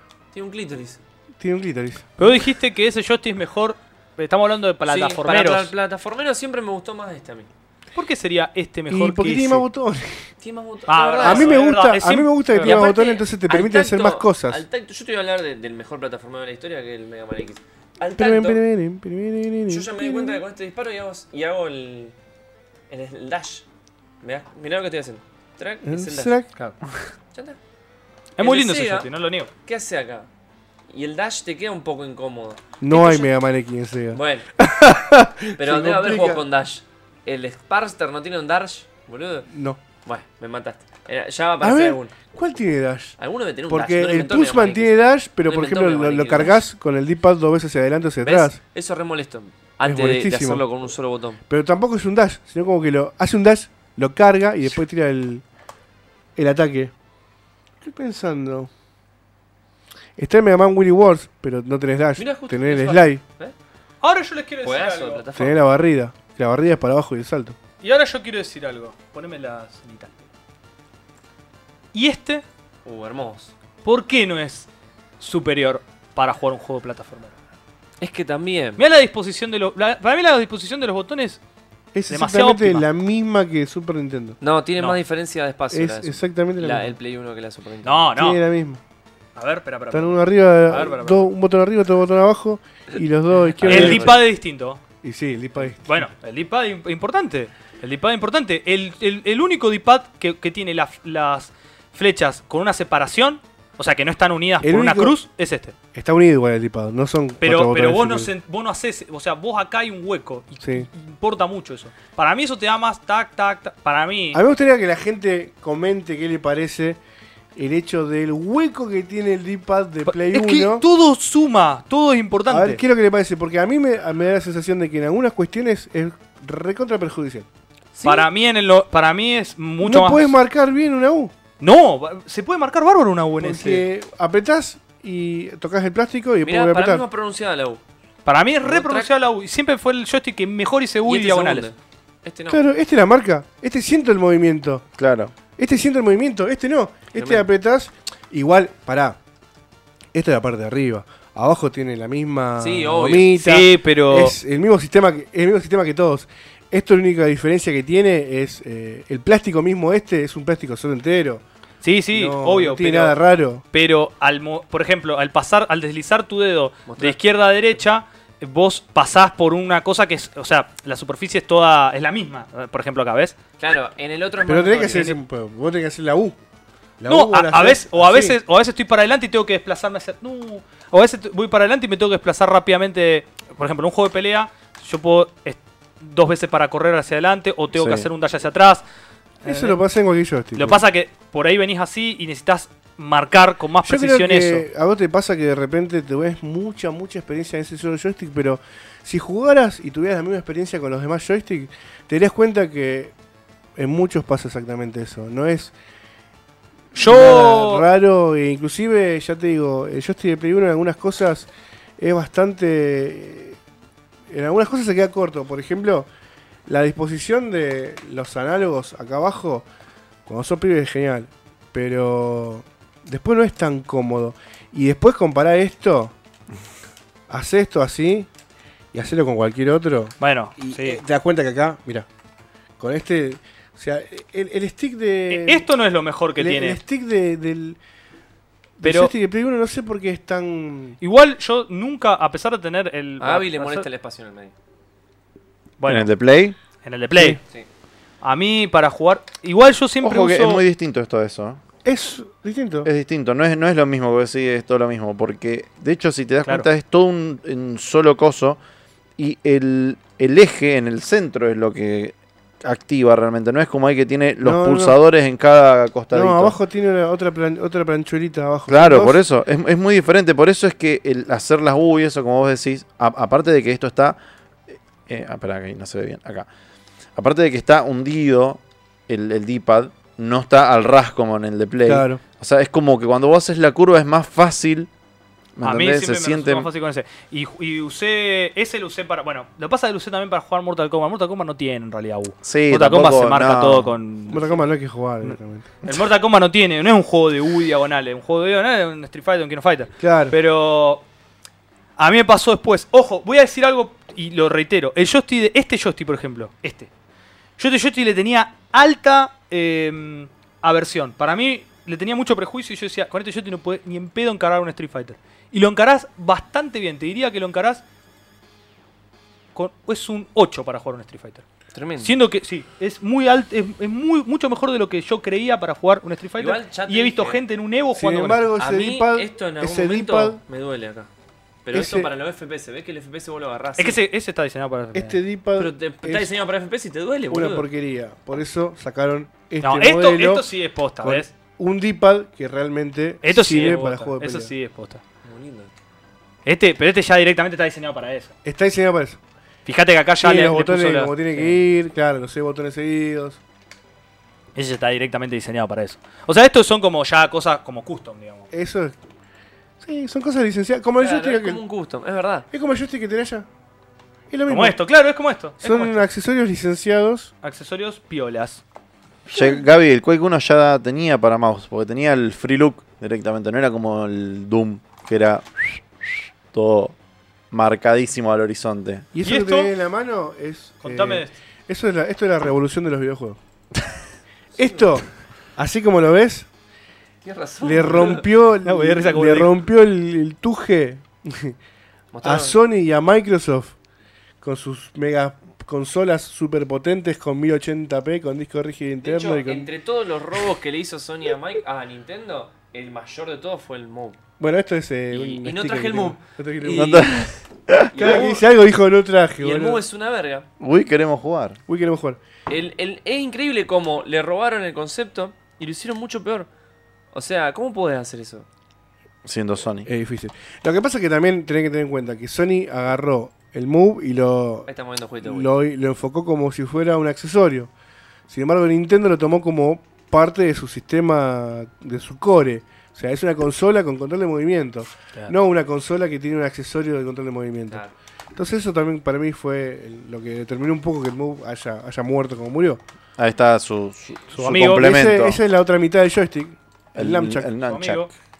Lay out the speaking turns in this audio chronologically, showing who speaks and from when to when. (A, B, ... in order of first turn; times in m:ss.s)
0:00.3-0:01.0 A
0:01.4-0:02.1 B
0:02.2-0:05.7 C
0:04.8-0:07.5 A
0:07.9-0:09.6 C
0:08.9-0:10.3 B
0:10.4-0:11.6 A
0:10.9-0:12.9 C
0:11.2-0:14.6 B
0:12.6-0:18.6 A
0:18.1-0:20.4 B
0:19.7-0:22.1 A
0:22.9-0:23.6 A
0:24.2-0:26.4 A
0:25.8-0:26.5 B
0:27.3-0:27.6 A
0:28.4-0:29.5 C
0:28.4-0:29.1 A
0:29.6-0:30.3 A
0:30.9-0:33.3 A
0:32.8-0:36.4 B
0:34.1-0:34.5 A
0:35.6-0:39.5 A
0:39.5-0:39.8 B
0:40.0-0:42.1 A
0:41.6-0:43.2 B
0:43.2-0:46.6 A
0:43.7-0:48.6 B
0:48.2-0:51.4 A
0:49.8-0:50.6 B
0:51.5-0:55.4 B
0:56.4-0:56.9 B
0:57.8-0:58.7 B
1:00.2-1:03.2 B
1:02.2-1:03.5 A
1:04.0-1:05.2 C
1:04.6-1:05.6 A
1:05.3-1:07.6 B
1:07.8-1:10.2 C
1:11.9-1:12.4 C
1:12.8-1:13.5 A
1:13.8-1:14.7 C
1:15.2-1:17.3 C
1:18.0-1:18.8 A
1:18.8-1:21.4 C
1:21.9-1:24.4 B
1:22.1-1:22.9 C
1:24.4-1:28.0 A
1:25.7-1:26.9 B
1:27.8-1:28.4 C
1:28.1-1:28.8 B
1:29.4-1:31.3 C
1:29.9-1:34.2 B
1:33.4-1:34.2 A
1:33.6-1:34.8 C
1:35.0-1:36.1 B
1:35.8-1:45.7 C
1:44.6-1:45.2 B
1:45.9-1:48.3 B
1:47.4-1:54.4 C
1:54.3-1:57.0 B
1:57.6-2:00.8 B
2:00.0-2:02.8 C
2:02.5-2:07.5 B
2:07.9-2:08.3 A
2:08.0-2:10.3 C
2:09.8-2:11.3 B
2:11.6-2:13.8 C
2:13.4-2:17.0 B
2:16.4-2:17.8 A
2:18.2-2:21.7 C
2:18.6-2:19.1 A
2:21.0-2:22.6 A
2:22.5-2:24.8 B
2:25.0-2:25.3 D
2:25.5-2:29.2 B
2:27.1-2:27.4 A
2:30.1-2:41.4 B
2:32.6-2:33.3 A
2:33.4-2:34.4 C
2:41.8-2:43.2 C
2:42.1-2:43.6 B
2:43.7-2:53.3 C
2:46.9-2:47.2 A
2:53.6-2:55.1 A
2:54.4-2:56.4 B
2:54.9-2:55.2 C
2:57.0-2:58.4 B
2:57.1-3:08.8 C
3:07.7-3:08.1 D
3:09.4-3:09.8 C
3:09.4-3:10.8 B
3:10.6-3:14.6 C
3:13.8-3:23.1 B
3:23.8-3:25.7 B
3:26.9-3:33.6 B
3:27.0-3:27.8 C
3:34.3-3:36.1 B
3:36.7-3:39.6 B
3:40.2-3:46.1 B
3:47.3-3:48.3 B
3:48.9-3:52.1 B
3:50.2-3:51.0 C
3:52.8-3:55.6 B
3:55.3-3:56.8 C
3:56.4-3:57.8 B
3:58.8-4:01.0 B
3:58.8-3:59.1 C
4:01.0-4:03.8 C
4:03.2-4:04.5 A
4:05.8-4:06.1 C
4:05.8-4:06.6 D
4:06.8-4:07.4 C
4:08.2-4:10.6 C
4:10.0-4:11.6 D
4:11.8-4:12.9 B
4:12.8-4:18.6 D
4:19.2-4:26.6 D
4:24.4-4:25.0 B
4:26.1-4:29.2 B
4:28.7-4:34.2 D
4:34.7-4:36.5 D
4:37.2-4:44.9 D
4:41.8-4:42.2 B
4:45.6-4:46.7 D
4:45.6-4:54.6 C
4:52.4-4:53.9 D
4:54.3-4:55.7 B
4:55.2-5:01.0 C
5:00.0-5:00.3 B
5:02.0-5:06.9 C
5:07.6-5:17.8 C
5:19.5-5:21.4 C
5:21.7-5:22.1 A
5:22.0-5:28.5 C
5:26.4-5:27.4 A
5:27.9-5:30.4 B
5:28.6-5:31.1 A
5:31.6-5:34.0 A
5:31.7-5:32.1 B
5:33.8-5:35.2 C
5:34.9-5:36.3 B
5:35.6-5:37.7 A
5:37.3-5:40.5 B
5:39.6-5:41.3 C
5:41.0-5:44.5 B
5:43.2-5:45.0 C
5:43.5-5:43.9 A
5:45.2-5:45.7 A
5:46.4-5:48.3 C
5:48.4-5:49.2 B
5:49.6-5:51.6 C
5:50.2-5:53.4 B
5:54.6-5:58.5 C
5:58.5-5:59.0 B
5:59.8-6:01.6 B
6:01.0-6:02.4 A
6:02.5-6:03.4 B
6:04.3-6:04.8 B
6:04.5-6:06.0 C
6:05.6-6:07.3 B
6:07.4-6:08.6 C
6:09.3-6:16.9 D
6:17.5-6:19.0 D
6:19.1-6:23.4 B
6:19.2-6:19.7 C
6:20.8-6:21.3 C
6:24.6-6:26.5 B
6:27.2-6:28.3 A
6:27.6-6:31.6 B
6:28.6-6:29.6 C
6:32.1-6:32.6 A
6:32.2-6:33.7 B
6:34.4-6:39.7 B
6:39.0-6:44.2 A
6:44.4-6:47.1 B
6:45.1-6:47.3 A
6:46.7-6:48.0 D
6:47.9-6:48.4 A
6:47.9-6:49.8 B
6:49.4-6:50.5 A
6:50.6-6:51.6 D
6:51.7-6:52.2 B
6:52.5-6:56.5 A
6:57.1-6:58.4 A
6:59.2-6:59.9 D
6:59.8-7:04.7 B
7:04.6-7:05.5 A
7:05.2-7:07.7 B
7:08.3-7:17.8 B
7:18.3-7:22.8 B
7:23.2-7:25.4 D
7:24.3-7:24.9 C
7:24.4-7:27.5 B
7:26.9-7:28.1 D
7:27.6-7:28.1 C